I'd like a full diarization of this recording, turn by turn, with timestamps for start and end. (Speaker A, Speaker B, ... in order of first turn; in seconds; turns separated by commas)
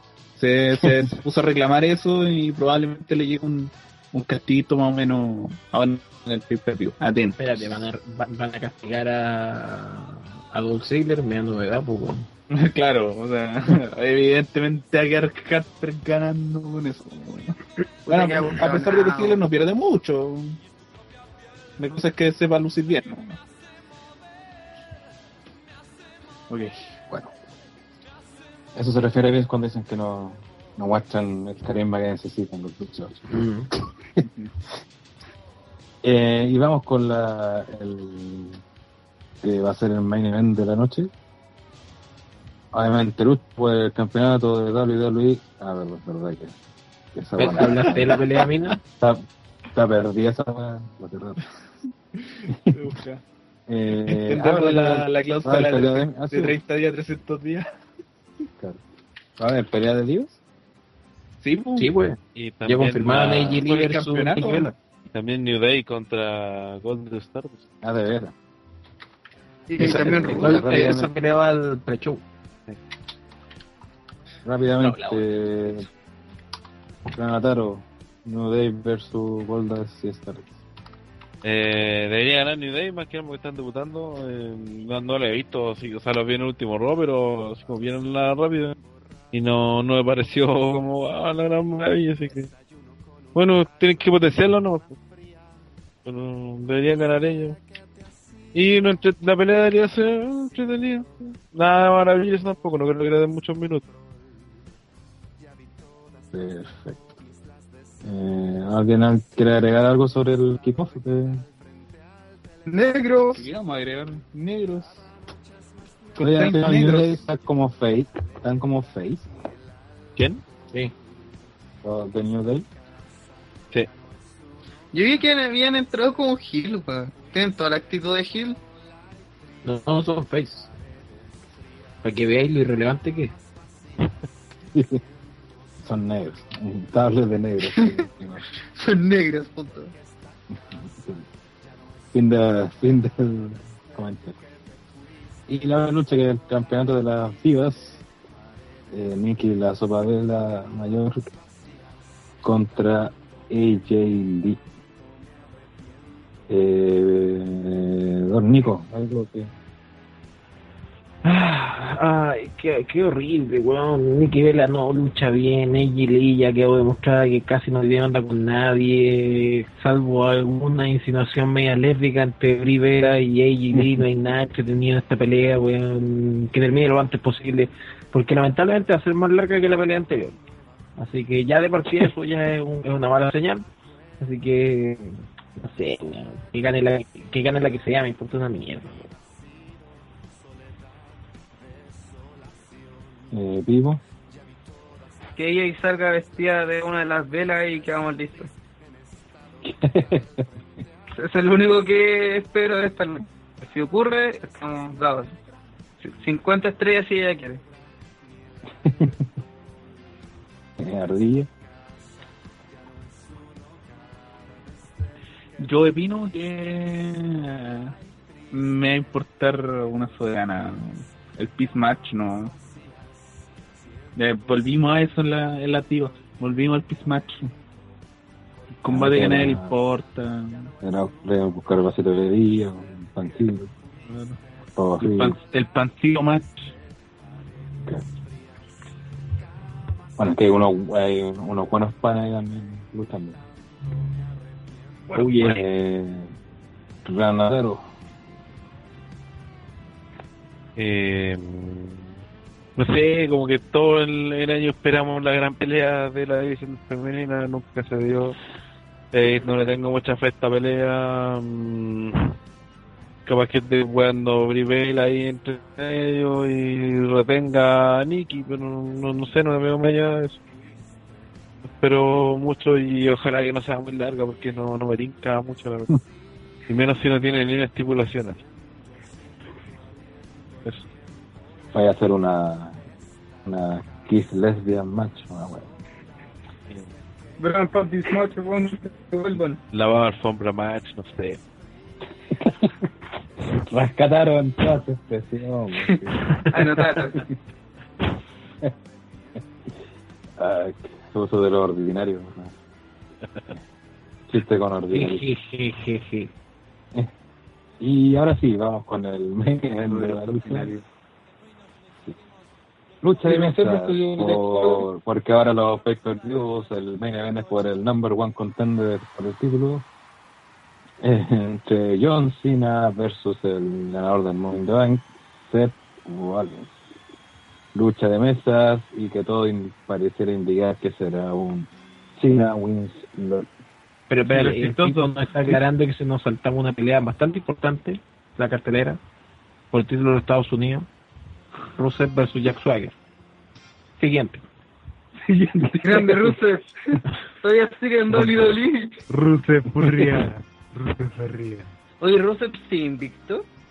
Speaker A: 0.3-7.8, Speaker B: 7.4-12.2, Speaker A: 12.5-20.6, Speaker C: 18.1-19.4, Speaker A: 21.8-23.4, Speaker A: 26.5-26.8, Speaker D: 28.7-33.3, Speaker B: 33.3-33.7, Speaker A: 34.3-34.5, Speaker D: 36.0-38.6, Speaker D: 39.4-41.1, Speaker D: 42.7-46.5, Speaker D: 47.1-48.2, Speaker B: 47.4-48.8, Speaker D: 49.0-51.4, Speaker A: 52.2-53.2, Speaker D: 52.5-52.7, Speaker D: 53.7-56.5, Speaker A: 54.0-57.7, Speaker D: 59.4-60.4, Speaker A: 61.4-61.9, Speaker B: 61.8-64.7, Speaker E: 62.3-63.6, Speaker A: 63.1-64.7, Speaker E: 65.1-67.6, Speaker D: 67.8-68.3, Speaker C: 69.7-70.9, Speaker B: 69.8-72.2, Speaker D: 69.8-71.1, Speaker D: 74.4-75.8, Speaker A: 74.8-75.3, Speaker D: 77.1-80.5, Speaker E: 81.4-88.8, Speaker E: 89.3-92.5, Speaker E: 93.3-95.0, Speaker E: 96.0-97.6, Speaker E: 98.5-103.8, Speaker D: 106.3-107.2, Speaker D: 108.0-111.4, Speaker C: 112.7-113.5, Speaker A: 113.3-115.0, Speaker A: 116.2-117.2, Speaker D: 116.2-119.3, Speaker E: 120.2-120.4, Speaker D: 121.8-122.7, Speaker C: 124.9-128.6, Speaker B: 129.6-130.7, Speaker B: 132.0-133.3, Speaker D: 134.7-135.0, Speaker D: 135.8-138.4, Speaker C: 137.6-138.0, Speaker C: 138.7-139.9, Speaker D: 140.7-141.2, Speaker D: 142.1-144.4, Speaker D: 145.5-148.0, Speaker D: 148.9-151.3, Speaker D: 152.4-154.6, Speaker D: 156.5-159.5, Speaker B: 161.2-180.3, Speaker D: 173.7-174.0, Speaker B: 181.0-183.7, Speaker B: 184.2-189.1, Speaker D: 193.3-194.0, Speaker C: 195.3-198.5, Speaker D: 199.6-200.5, Speaker C: 201.1-205.3, Speaker C: 206.0-207.6, Speaker D: 208.8-209.3, Speaker D: 210.8-211.5, Speaker A: 215.6-217.9, Speaker A: 218.5-222.5, Speaker A: 224.2-227.4, Speaker A: 228.8-230.7, Speaker D: 228.9-229.8, Speaker D: 230.8-233.7, Speaker A: 234.1-234.4, Speaker D: 234.8-235.4, Speaker A: 235.0-236.7, Speaker D: 240.2-243.4, Speaker D: 245.2-246.3, Speaker D: 247.0-247.8, Speaker E: 250.8-252.1, Speaker E: 252.8-258.4, Speaker E: 259.1-262.3, Speaker E: 263.2-270.4, Speaker E: 271.8-276.0, Speaker E: 276.7-278.4, Speaker D: 281.7-282.8, Speaker D: 283.4-285.7, Speaker C: 287.4-289.6, Speaker E: 289.7-291.4, Speaker D: 292.3-292.7, Speaker D: 293.5-296.4, Speaker C: 295.9-297.3, Speaker D: 300.4-302.5, Speaker D: 304.3-305.2, Speaker B: 304.9-306.3, Speaker D: 307.8-310.8, Speaker D: 313.0-319.9, Speaker C: 313.3-314.8, Speaker D: 321.0-326.7, Speaker D: 327.7-333.5, Speaker B: 334.1-339.0, Speaker A: 334.3-335.6, Speaker B: 339.7-340.9, Speaker B: 341.7-342.9, Speaker B: 344.0-344.4, Speaker A: 345.2-346.3, Speaker C: 345.8-349.0, Speaker E: 349.1-351.6, Speaker C: 352.0-353.4